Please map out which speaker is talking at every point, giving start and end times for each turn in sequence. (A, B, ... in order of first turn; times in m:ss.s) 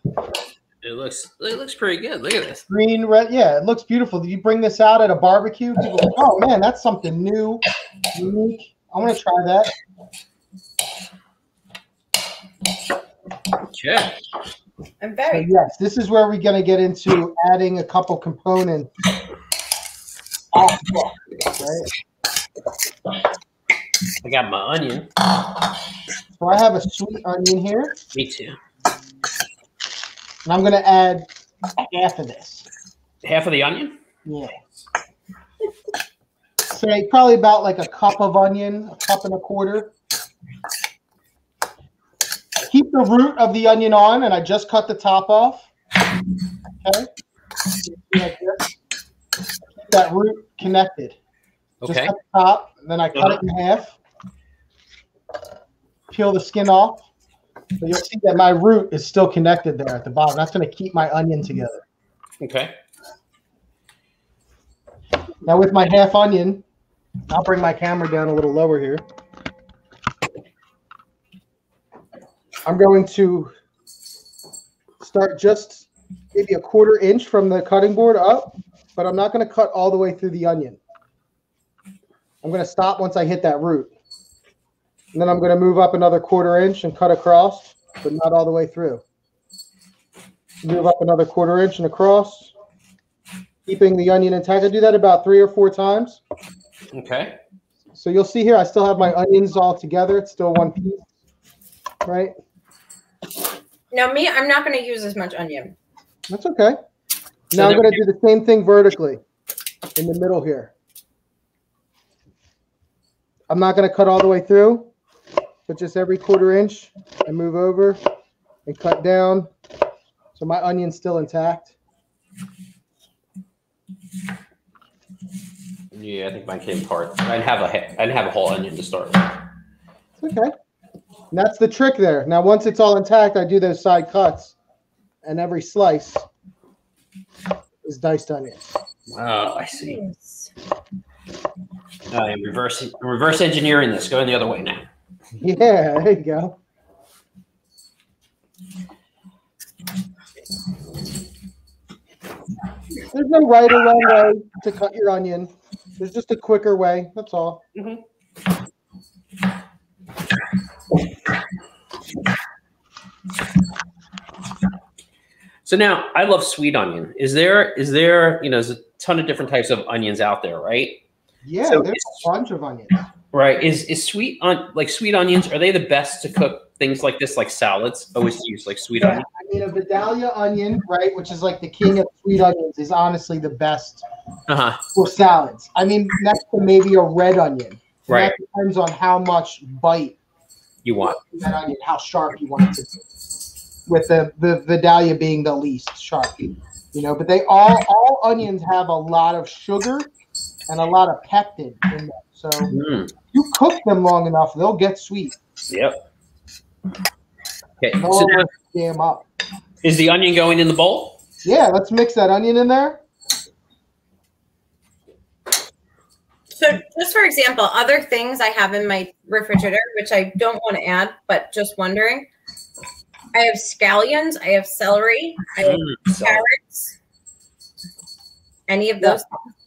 0:00.8-0:02.6 A
0:02.7-0:09.7 B
0:13.7-0:14.1 A
0:15.0-0:15.5 C
0:15.3-0:18.9 B
0:20.5-0:21.9 B
0:24.2-0:25.1 A
0:26.4-0:28.0 B
0:28.1-0:28.6 A
0:30.4-0:32.7 B
0:33.2-0:34.0 A
0:34.2-0:34.5 B
0:36.7-0:39.9 B
0:42.6-0:45.7 B
0:46.8-0:47.1 B
0:47.8-0:48.7 B
0:49.7-0:51.2 B
0:51.8-0:52.1 A
0:51.8-0:54.0 B
0:53.1-0:53.4 A
0:56.1-0:57.0 B
0:57.8-1:01.8 B
1:02.4-1:02.7 A
1:05.4-1:06.6 B
1:07.3-1:09.0 B
1:12.6-1:13.5 B
1:15.0-1:20.8 B
1:22.4-1:23.9 B
1:25.1-1:29.0 B
1:30.6-1:32.5 B
1:33.6-1:36.2 B
1:36.9-1:37.4 A
1:37.9-1:41.0 B
1:42.0-1:42.3 B
1:43.9-1:45.7 C
1:46.3-1:46.8 B
1:47.5-1:49.2 B
1:47.5-1:48.0 A
1:50.0-1:50.7 B
1:53.5-1:54.9 B
1:55.7-1:58.0 B
1:58.6-1:59.5 B
2:00.4-2:01.7 B
2:05.9-2:09.3 A
2:10.2-2:10.5 B
2:11.3-2:14.5 B
2:15.2-2:16.2 B
2:17.8-2:18.7 B
2:19.1-2:20.0 A
2:19.7-2:20.5 C
2:22.1-2:24.8 A
2:25.4-2:26.6 B
2:33.1-2:37.8 B
2:45.6-2:51.0 A
2:51.4-2:53.1 B
2:51.6-2:52.2 A
2:53.3-2:59.2 A
2:59.0-3:04.0 B
3:04.5-3:04.8 A
3:04.9-3:10.2 B
3:08.1-3:08.3 A
3:10.8-3:11.2 A
3:11.2-3:13.0 B
3:13.9-3:20.1 B
3:20.7-3:22.7 B
3:22.7-3:23.1 A
3:23.3-3:25.4 B
3:25.7-3:26.0 A
3:27.8-3:28.5 A
3:28.0-3:29.2 B
3:29.8-3:31.2 A
3:31.4-3:33.0 B
3:36.5-3:42.3 C
3:43.3-3:46.9 C
3:45.6-3:46.4 A
3:48.7-3:49.3 C